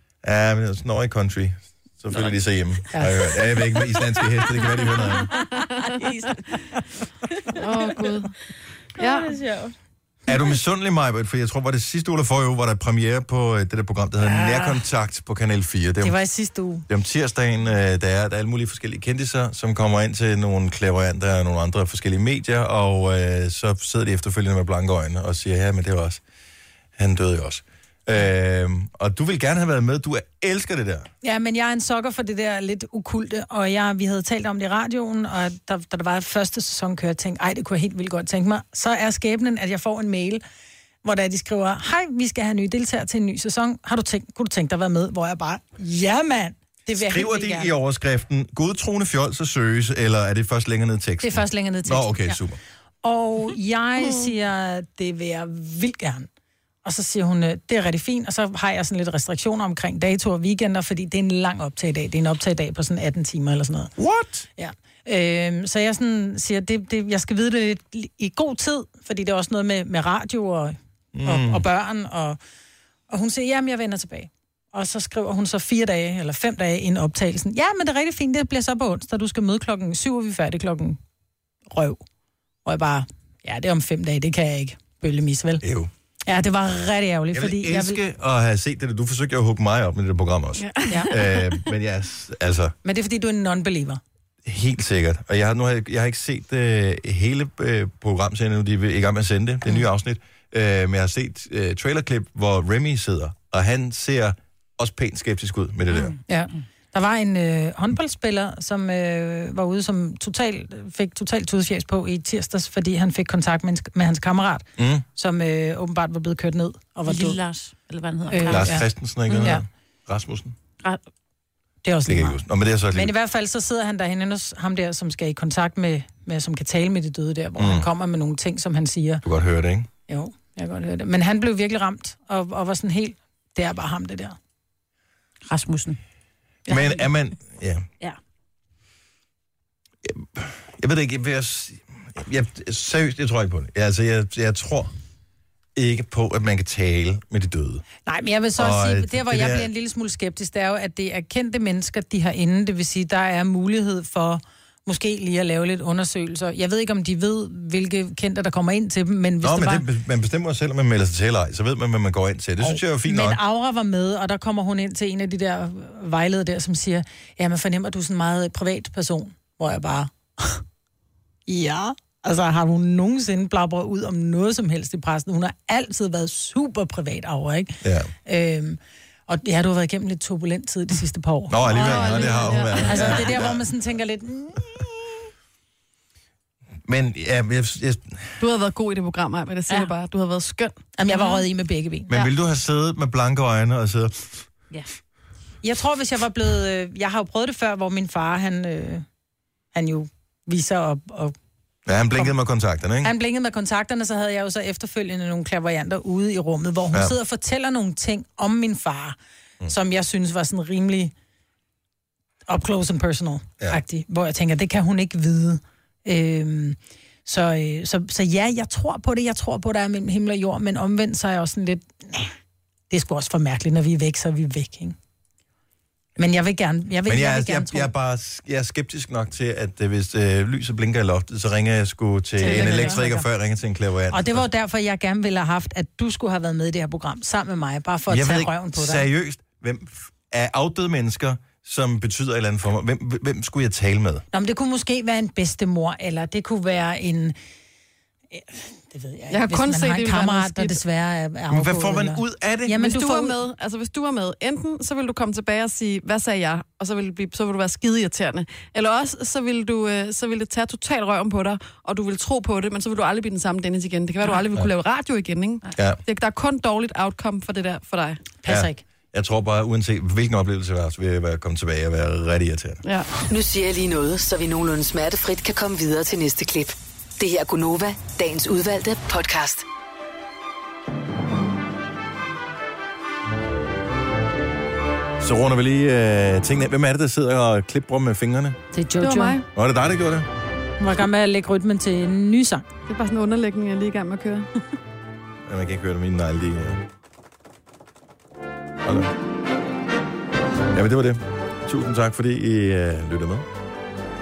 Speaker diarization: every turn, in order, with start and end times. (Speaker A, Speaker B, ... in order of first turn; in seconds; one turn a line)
Speaker A: 0.2-5.3
Speaker B: 2.9-3.2
Speaker C: 5.4-6.8
Speaker C: 7.4-8.0
Speaker D: 7.5-8.3
Speaker C: 9.0-9.7
Speaker D: 9.0-9.3
Speaker A: 10.3-16.2
Speaker B: 14.2-14.8
Speaker B: 16.0-16.9
Speaker A: 16.9-26.2
Speaker A: 27.0-31.1
Speaker B: 31.2-40.4
Speaker B: 41.0-47.7
Speaker A: 47.0-52.6
Speaker B: 51.2-52.4
Speaker B: 53.0-56.3
Speaker B: 56.8-63.9
Speaker A: 64.0-64.5
Speaker B: 64.6-72.4
Speaker A: 71.1-71.6
Speaker B: 73.1-81.0
Speaker B: 81.7-82.0
Speaker B: 82.6-85.6
Speaker A: 85.6-85.9
Speaker B: 86.3-88.0
Speaker A: 87.3-92.8
Speaker D: 90.6-91.6
Speaker B: 92.8-94.0
Speaker A: 94.5-106.2
Speaker B: 106.1-117.4
Speaker A: 114.8-115.0
Speaker C: 117.1-119.5
Speaker B: 118.3-119.6
Speaker A: 118.5-120.6
Speaker B: 121.8-129.2
Speaker A: 122.1-123.1
Speaker A: 127.6-127.9
Speaker A: 129.2-129.9
Speaker B: 130.1-134.4
Speaker C: 135.5-136.0
Speaker A: 136.7-137.9
Speaker A: 140.0-144.9
Speaker A: 145.8-147.8
Speaker B: 148.1-159.9
Speaker A: 148.6-149.7
Speaker A: 159.4-163.4
Speaker B: 162.6-170.6
Speaker B: 171.5-185.2
Speaker A: 177.8-178.1
Speaker A: 181.5-183.6
Speaker D: 181.7-183.4
Speaker A: 186.9-188.4
Speaker D: 188.4-190.8
Speaker B: 191.0-192.1
Speaker A: 192.1-194.5
Speaker B: 195.6-199.1
Speaker B: 199.7-201.3
Speaker A: 201.9-203.1
Speaker B: 202.0-202.3
Speaker B: 203.0-211.1
Speaker B: 212.5-222.3
Speaker B: 222.9-225.0
Speaker B: 226.2-227.9
Speaker A: 227.1-234.4
Speaker B: 232.4-233.3
Speaker D: 232.4-233.0
Speaker B: 234.1-239.1
Speaker A: 238.1-244.2
Speaker B: 244.3-247.4
Speaker B: 248.3-253.4
Speaker D: 249.3-250.8
Speaker A: 251.5-252.8
Speaker D: 252.8-268.2
Speaker B: 268.4-268.8
Speaker A: 268.4-272.8
Speaker D: 272.8-273.1
Speaker E: 273.3-279.6
Speaker A: 285.2-288.6
Speaker B: 288.7-289.4
Speaker D: 289.0-289.4
Speaker A: 289.5-290.3
Speaker B: 290.8-292.7
Speaker D: 292.9-294.5
Speaker A: 295.5-296.8
Speaker A: 298.8-299.1
Speaker A: 300.7-303.5